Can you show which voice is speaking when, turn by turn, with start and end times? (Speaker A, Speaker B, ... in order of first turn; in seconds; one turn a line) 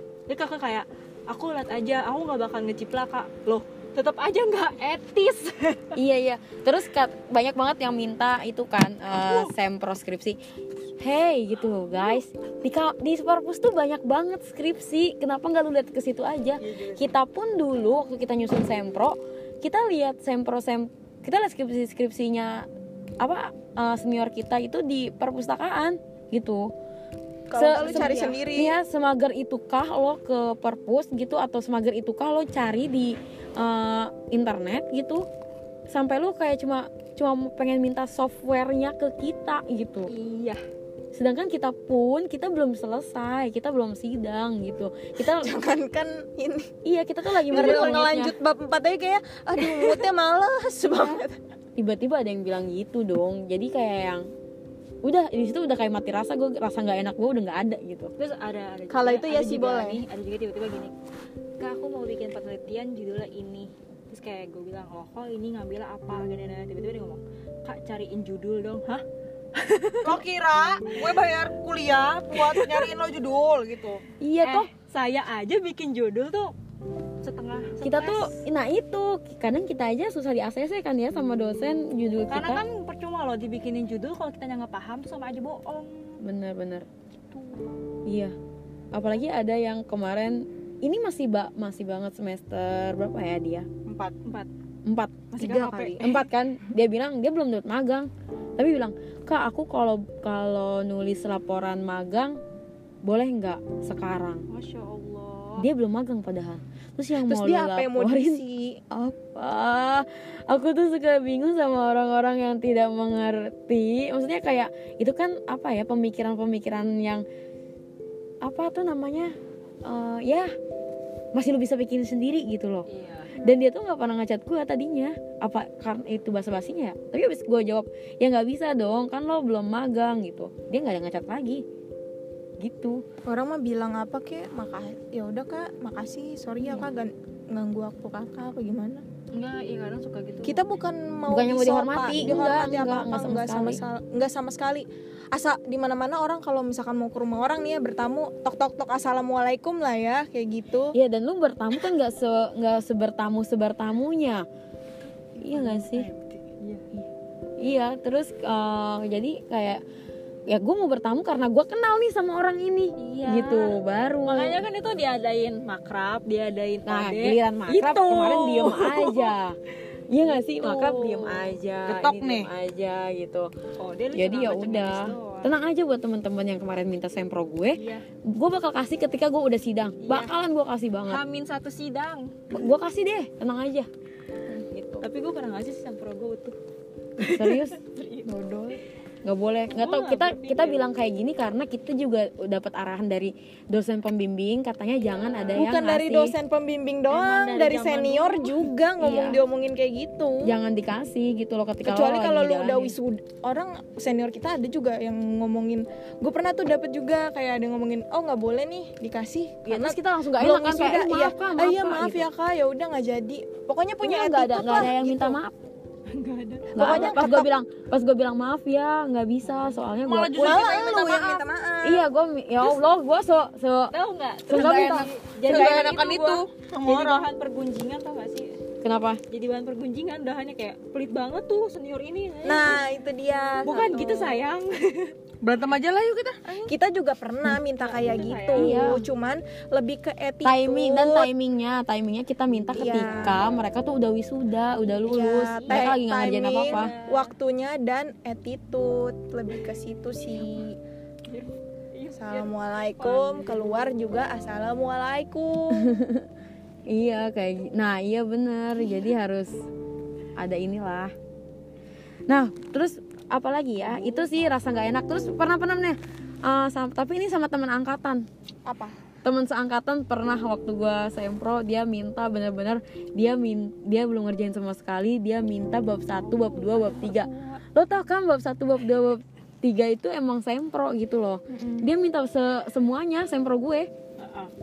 Speaker A: 0.3-5.9
Speaker B: 5.9-10.4
Speaker A: 9.2-9.5
Speaker B: 11.0-22.7
Speaker C: 16.6-17.1
Speaker B: 23.2-26.7
Speaker D: 27.5-28.7
Speaker B: 27.5-35.2
Speaker A: 27.6-28.4
Speaker B: 35.9-40.1
Speaker A: 40.1-40.6
Speaker B: 41.1-45.5
Speaker D: 45.2-46.7
Speaker B: 46.8-48.3
Speaker D: 47.5-51.4
Speaker B: 51.8-54.3
Speaker B: 55.0-58.1
Speaker A: 58.2-60.9
Speaker D: 58.9-60.0
Speaker A: 61.6-70.2
Speaker C: 70.0-74.0
Speaker A: 72.3-72.9
Speaker B: 74.2-74.7
Speaker A: 74.4-76.5
Speaker A: 77.2-78.4
Speaker B: 77.8-82.6
Speaker A: 82.3-86.2
Speaker B: 86.2-86.8
Speaker A: 87.3-87.7
Speaker B: 88.0-88.3
Speaker B: 88.9-93.7
Speaker C: 93.9-94.1
Speaker A: 94.2-94.5
Speaker B: 94.8-102.4
Speaker A: 95.3-96.2
Speaker D: 95.4-96.1
Speaker B: 103.0-104.4
Speaker A: 104.5-105.7
Speaker B: 105.6-117.2
Speaker D: 107.2-108.8
Speaker B: 118.4-120.5
Speaker B: 121.3-122.8
Speaker A: 122.9-123.3
Speaker B: 123.4-131.6
Speaker B: 132.6-133.0
Speaker D: 133.2-139.0
Speaker A: 139.3-140.6
Speaker D: 140.4-150.9
Speaker B: 141.3-143.8
Speaker B: 150.9-154.4
Speaker B: 155.4-156.1
Speaker C: 155.8-156.4
Speaker A: 156.6-156.9
Speaker B: 157.6-159.8
Speaker B: 160.5-164.6
Speaker A: 163.0-169.3
Speaker B: 166.8-169.6
Speaker B: 170.1-173.5
Speaker A: 170.2-171.5
Speaker C: 171.8-172.5
Speaker A: 173.8-175.5
Speaker B: 174.1-181.2
Speaker A: 177.7-178.0
Speaker A: 180.0-180.3
Speaker A: 181.1-182.5
Speaker B: 182.5-183.9
Speaker B: 184.7-185.0
Speaker A: 185.0-186.6
Speaker A: 187.2-188.3
Speaker B: 187.3-187.8
Speaker B: 188.3-196.3
Speaker A: 189.7-190.8
Speaker A: 195.0-195.6
Speaker D: 195.5-200.5
Speaker A: 197.1-198.7
Speaker B: 199.0-199.4
Speaker B: 200.4-202.9
Speaker D: 201.8-215.4
Speaker B: 209.6-212.3
Speaker B: 214.0-215.5
Speaker A: 216.1-217.3
Speaker B: 216.8-220.6
Speaker D: 216.8-217.5
Speaker A: 219.5-219.8
Speaker C: 220.0-221.4
Speaker D: 220.4-222.0
Speaker B: 221.8-223.9
Speaker A: 223.9-228.5
Speaker B: 224.5-225.1
Speaker C: 224.5-227.3
Speaker D: 225.5-226.0
Speaker B: 228.8-229.2
Speaker A: 229.3-232.8
Speaker D: 232.4-234.4
Speaker A: 233.6-235.1
Speaker C: 235.4-236.4
Speaker A: 236.4-236.7
Speaker D: 236.7-241.3
Speaker A: 237.8-238.9
Speaker B: 238.6-239.1
Speaker B: 240.4-246.9
Speaker A: 242.7-243.6
Speaker D: 242.7-243.4
Speaker A: 244.8-246.0
Speaker D: 245.1-250.8
Speaker A: 246.6-247.3
Speaker A: 251.3-253.5
Speaker D: 252.2-255.9
Speaker B: 255.7-256.2
Speaker B: 256.9-259.6
Speaker B: 260.4-261.1
Speaker B: 262.3-268.2
Speaker A: 264.0-264.2
Speaker D: 268.6-269.0
Speaker B: 269.2-283.9
Speaker A: 276.1-277.6
Speaker D: 281.5-281.9
Speaker A: 284.2-284.5